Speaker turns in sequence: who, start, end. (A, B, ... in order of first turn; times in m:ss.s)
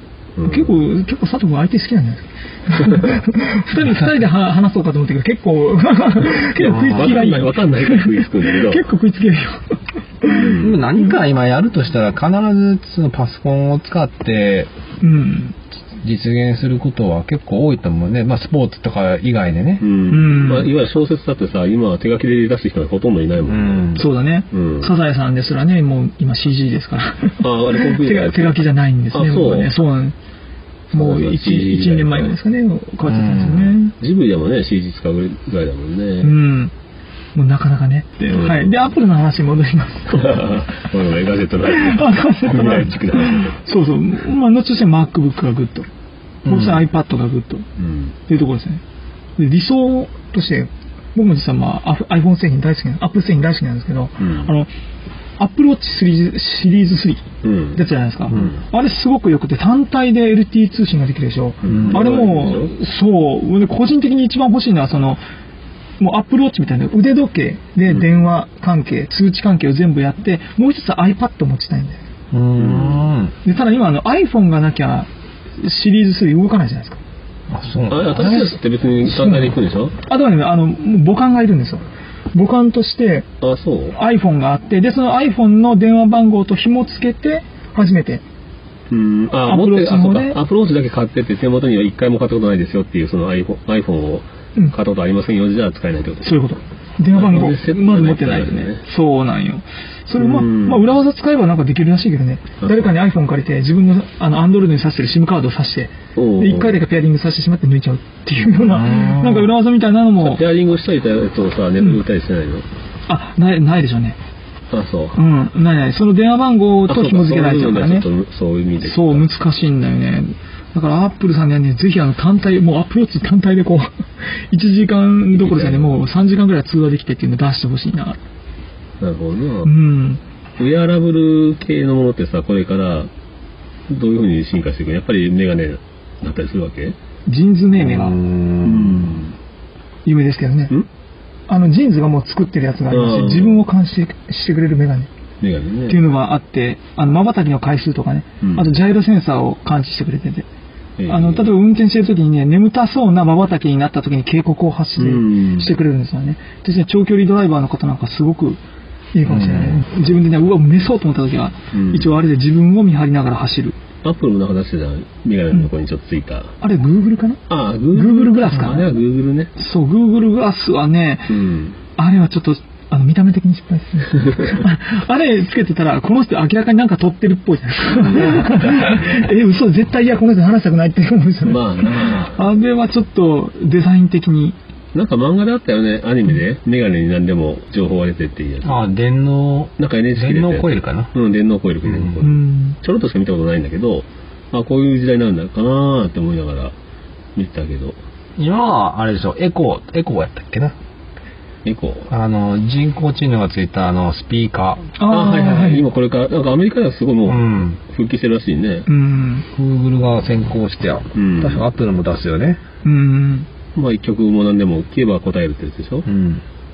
0:00.4-0:00.8 A
0:00.4-0:09.6 B
0:06.6-0:07.3 C
0:06.9-0:08.8 A
0:10.2-0:11.2 B
0:10.3-0:10.8 A
0:10.5-0:14.7 C
0:15.0-0:15.6 B
0:16.0-0:19.8 C
0:19.8-0:24.9 A
0:20.1-0:20.7 B
0:23.4-0:24.0 C
0:23.9-0:30.1 B
0:27.4-0:29.7 A
0:30.9-0:32.3 A
0:30.9-0:33.9 B
0:33.0-0:33.8 C
0:34.0-0:36.4 A
0:36.2-0:36.7 B
0:37.3-0:40.3 B
0:38.3-0:38.8 A
0:40.1-0:43.5 A
0:41.6-0:45.8 B
0:46.4-0:46.9 C
0:46.4-0:47.7 B
0:47.8-0:48.1 A
0:48.3-0:48.8 B
0:49.4-0:54.7 B
0:54.2-0:54.5 A
0:55.4-1:05.2 B
0:57.4-0:58.6 A
0:58.3-0:58.6 C
1:01.6-1:02.7 A
1:01.6-1:02.1 C
1:06.0-1:12.0 B
1:07.9-1:08.1 A
1:12.3-1:13.4 C
1:12.6-1:13.1 A
1:13.4-1:17.0 B
1:17.5-1:18.6 C
1:17.9-1:20.0 A
1:18.2-1:18.5 B
1:19.0-1:23.2 B
1:23.4-1:24.0 A
1:23.9-1:28.2 B
1:28.9-1:36.3 A
1:29.3-1:30.4 B
1:36.2-1:50.4 B
1:37.1-1:38.8 A
1:40.2-1:40.9 A
1:42.6-1:42.9 A
1:46.2-1:46.8 A
1:48.7-1:49.5 C
1:50.2-1:52.6 A
1:53.1-1:54.2 B
1:54.7-1:55.2 A
1:55.1-1:58.1 B
1:56.9-1:59.3 A
1:58.8-2:03.9 B
2:04.5-2:08.2 B
2:05.3-2:06.0 A
2:09.0-2:09.7 A
2:09.6-2:10.2 B
2:10.6-2:13.1 A
2:13.9-2:17.0 A
2:17.2-2:18.2 B
2:17.7-2:19.2 C
2:18.6-2:19.3 A
2:20.0-2:20.7 B
2:21.5-2:25.1 B
2:22.9-2:23.6 A
2:25.4-2:26.0 A
2:25.9-2:30.5 B
2:28.4-2:28.7 A
2:31.0-2:31.5 A
2:31.1-2:38.6 B
2:35.0-2:35.7 A
2:39.1-2:43.8 B
2:39.2-2:39.8 C
2:41.7-2:42.2 A
2:44.0-2:46.5 A
2:46.6-2:49.0 B
2:47.5-2:49.5 A
2:49.6-2:51.3 B
2:51.3-2:51.8 A
2:52.0-3:04.6 B
2:57.9-2:59.3 A
3:01.4-3:02.4 A
3:04.9-3:08.8 A
3:08.6-3:11.1 C
3:09.8-3:16.7 A
3:11.9-3:12.2 C
3:12.2-3:12.8 B
3:17.4-3:18.0 A
3:18.4-3:20.7 C
3:21.6-3:22.1 A
3:22.1-3:24.9 C
3:24.9-3:25.9 B
3:25.1-3:28.9 A
3:27.2-3:27.8 C
3:28.8-3:29.4 B
3:29.5-3:32.6 C
3:31.1-3:31.6 A
3:32.8-3:33.5 B
3:33.7-3:36.0 A
3:36.0-3:36.4 C